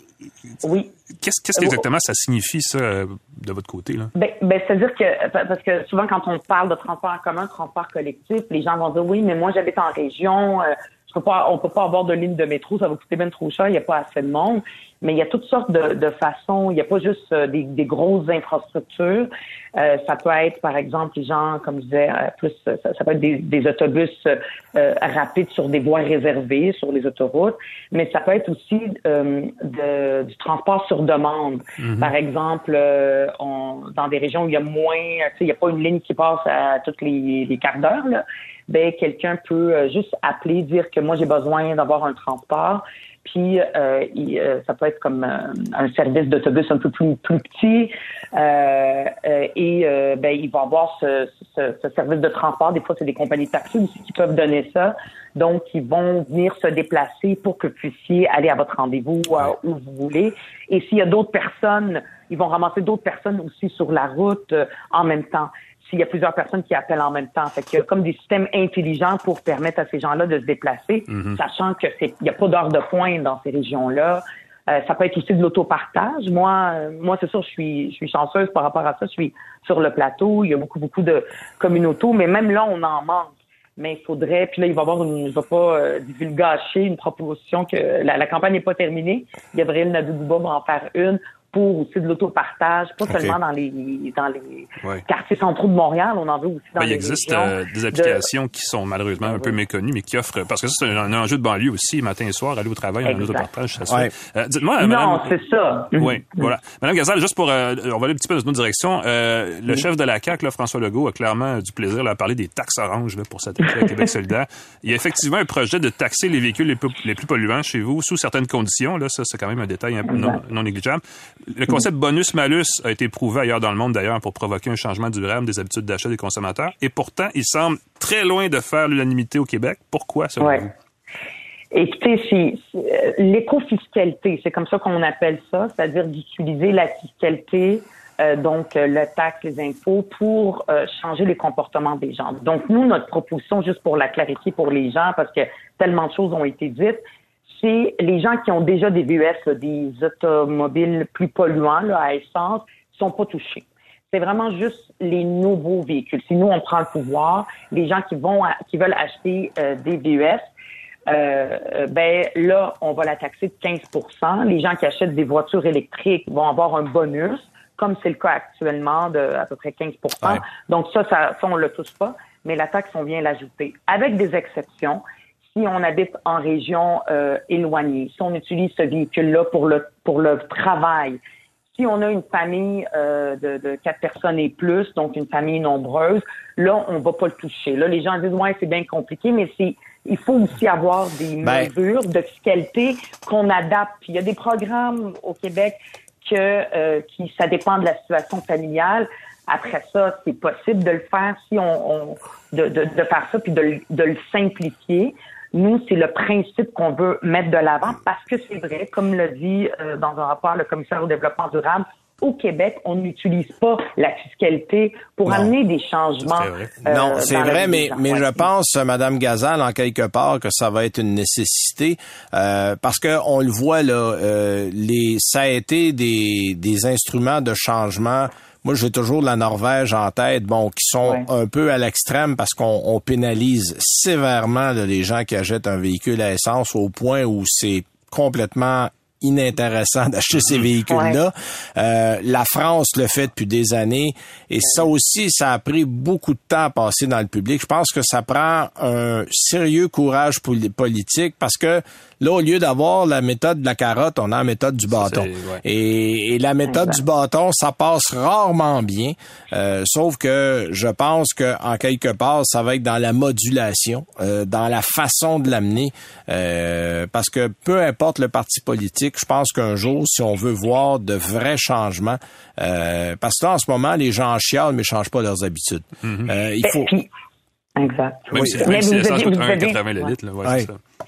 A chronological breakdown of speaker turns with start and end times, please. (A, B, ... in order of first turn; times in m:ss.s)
0:00.6-0:00.9 A
0:01.2-0:04.1 B
0:01.6-0:01.8 A
0:04.1-1:38.3 A
0:31.8-0:32.1 B
1:11.1-1:11.4 B
1:33.1-1:33.3 C
1:36.8-1:45.3 B
1:39.2-1:39.5 A
1:43.0-1:43.5 A
1:44.8-1:46.4 A
1:45.9-2:10.7 B
2:00.1-2:00.4 A
2:10.4-2:10.6 A
2:11.7-2:27.0 A
2:27.6-2:40.4 A
2:41.1-2:55.0 A
2:55.5-3:01.2 A
3:01.7-3:38.4 A
3:11.4-3:11.7 C
3:35.3-3:35.5 C
3:36.2-3:36.7 B
3:36.8-4:36.9 C
4:00.9-4:01.2 A
4:14.9-4:15.6 B
4:36.0-4:36.3 B
4:36.6-4:37.1 A
4:37.8-4:40.1 A
4:38.3-4:40.8 B
4:38.4-4:38.7 C